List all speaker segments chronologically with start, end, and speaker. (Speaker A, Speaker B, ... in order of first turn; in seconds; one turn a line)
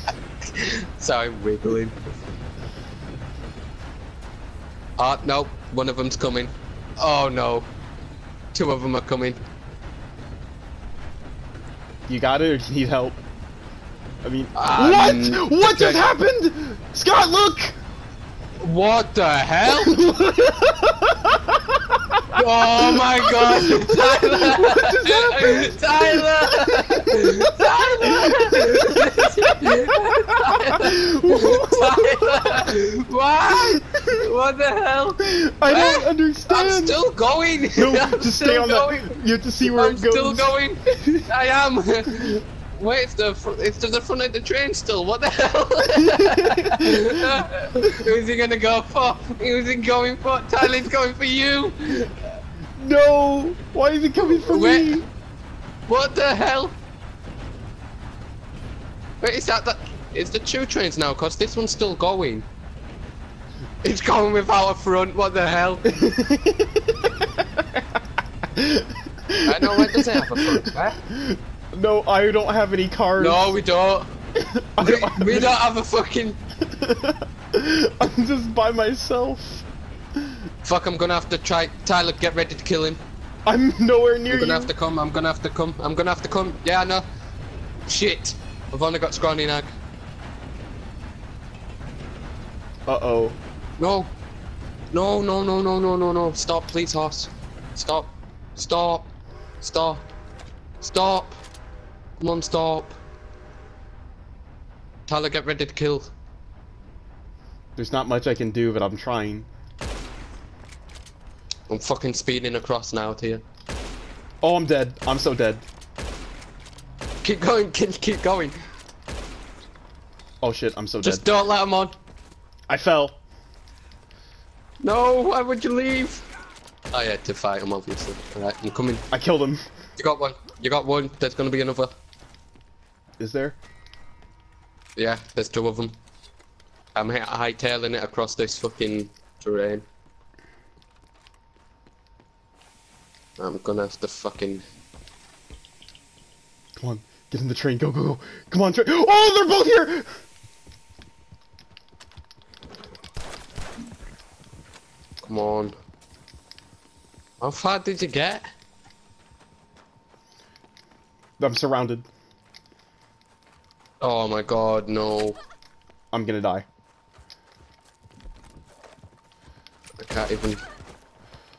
Speaker A: 0.4-2.1
Speaker A: 5.0-7.7
Speaker A: 8.5-9.4
Speaker B: 12.1-13.2
Speaker B: 14.2-17.8
Speaker A: 14.5-16.0
Speaker A: 18.6-20.1
Speaker B: 19.7-32.7
Speaker A: 22.3-52.1
Speaker B: 33.5-34.2
Speaker B: 35.2-37.0
Speaker B: 37.7-41.2
Speaker B: 46.0-48.1
Speaker B: 52.8-55.1
Speaker A: 54.2-55.0
Speaker A: 55.9-56.8
Speaker A: 59.2-62.5
Speaker A: 63.8-65.9
Speaker B: 65.8-67.8
Speaker B: 68.5-73.5
Speaker A: 69.4-71.0
Speaker A: 73.2-74.1
Speaker B: 74.4-75.5
Speaker A: 74.8-76.4
Speaker B: 76.7-79.7
Speaker A: 80.6-83.0
Speaker B: 83.5-84.7
Speaker A: 84.3-87.0
Speaker A: 87.9-89.7
Speaker B: 92.9-93.4
Speaker A: 93.8-94.1
Speaker A: 94.9-99.1
Speaker A: 99.6-100.1
Speaker A: 100.8-101.4
Speaker A: 102.2-103.0
Speaker A: 105.1-106.1
Speaker B: 107.8-109.5
Speaker A: 111.7-113.4
Speaker B: 114.4-115.6
Speaker A: 117.2-118.6
Speaker B: 120.4-121.2
Speaker A: 121.0-122.0
Speaker B: 122.7-123.2
Speaker A: 124.8-126.2
Speaker A: 126.9-129.1
Speaker B: 129.1-129.6
Speaker A: 130.0-131.9
Speaker B: 133.2-133.6
Speaker A: 134.9-135.9
Speaker A: 136.9-139.8
Speaker A: 143.4-144.6
Speaker B: 146.8-150.2
Speaker A: 155.2-155.7
Speaker A: 157.4-158.5
Speaker B: 161.4-162.1
Speaker A: 164.0-165.4
Speaker B: 166.1-166.7
Speaker A: 170.0-170.6